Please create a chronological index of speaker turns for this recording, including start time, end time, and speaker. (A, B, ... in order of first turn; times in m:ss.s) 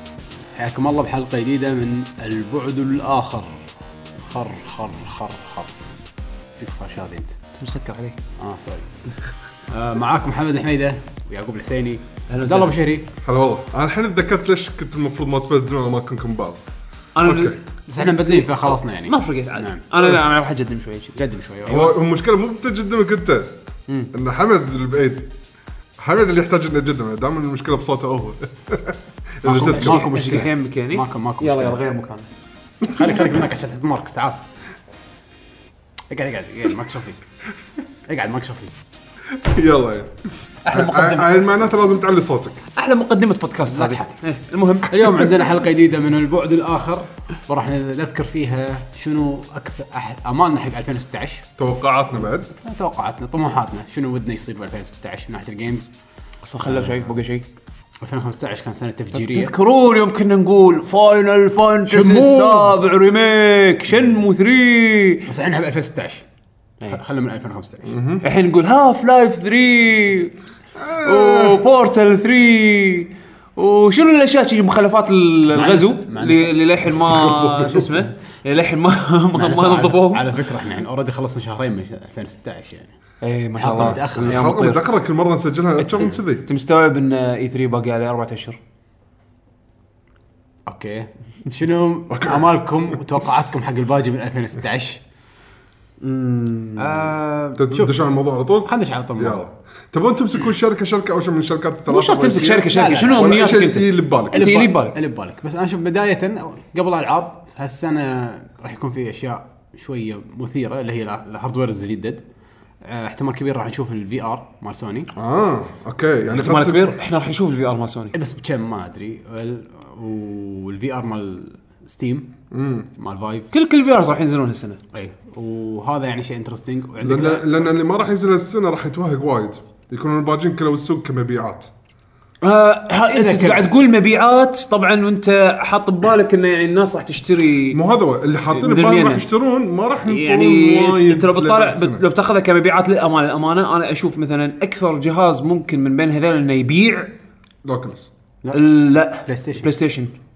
0:00.6-0:03.6 A
0:04.2-0:05.9 A
0:06.6-0:07.4 A
0:07.6-0:08.2 B
0:08.4-0:08.9 A
0:09.7-0:13.1 A
0:12.3-0:12.8 B
0:13.2-0:16.6 C
0:17.2-0:21.2 B
0:17.2-0:17.6 C
0:17.9-0:19.8 A
0:21.2-0:21.9 A
0:21.7-0:23.5 C
0:24.1-0:25.3 C
0:26.0-0:30.0 C
0:29.4-0:31.8 A
0:29.5-0:32.3 B
0:32.8-0:33.2 C
0:32.9-0:34.4 A
0:36.1-0:37.2 A
0:38.1-0:38.8 A
0:39.4-0:40.1 C
0:40.7-0:42.6 C
0:40.7-0:41.2 A
0:42.8-0:45.1 B
0:43.7-0:44.2 A
0:44.9-0:51.5 A
0:51.6-0:52.5 C
0:52.6-0:55.9 A
0:56.4-0:57.5 B
0:56.6-0:57.1 A
0:58.0-0:59.5 A
0:59.1-1:05.3 B
1:01.9-1:02.8 A
1:05.3-1:06.2 A
1:06.9-1:07.9 A
1:07.9-1:08.2 C
1:08.2-1:10.4 B
1:10.8-1:11.6 C
1:11.0-1:20.4 B
1:15.5-1:16.5 A
1:17.1-1:17.8 C
1:17.6-1:18.0 A
1:19.3-1:22.9 A
1:23.2-1:24.8 B
1:23.6-1:24.5 A
1:23.8-1:26.4 C
1:25.8-1:28.6 B
1:30.7-1:35.0 A
1:32.1-1:32.5 C
1:36.0-1:37.1 B
1:36.8-1:38.0 A
1:37.6-1:44.4 C
1:38.6-1:39.4 A
1:41.9-1:45.0 B
1:42.7-1:43.6 A
1:44.3-1:52.2 A
1:52.8-1:55.1 A
1:55.2-1:57.0 C
1:56.3-1:58.1 B
1:58.1-2:02.3 A
2:02.5-2:02.9 C
2:03.0-2:03.5 A
2:03.5-2:04.8 B
2:04.9-2:07.7 A
2:07.0-2:11.7 C
2:12.4-2:17.8 B
2:13.1-2:13.7 A
2:17.7-2:22.0 C
2:18.5-2:19.3 B
2:20.0-2:27.1 B
2:27.7-2:28.1 C
2:28.4-2:29.7 A
2:28.5-2:30.1 B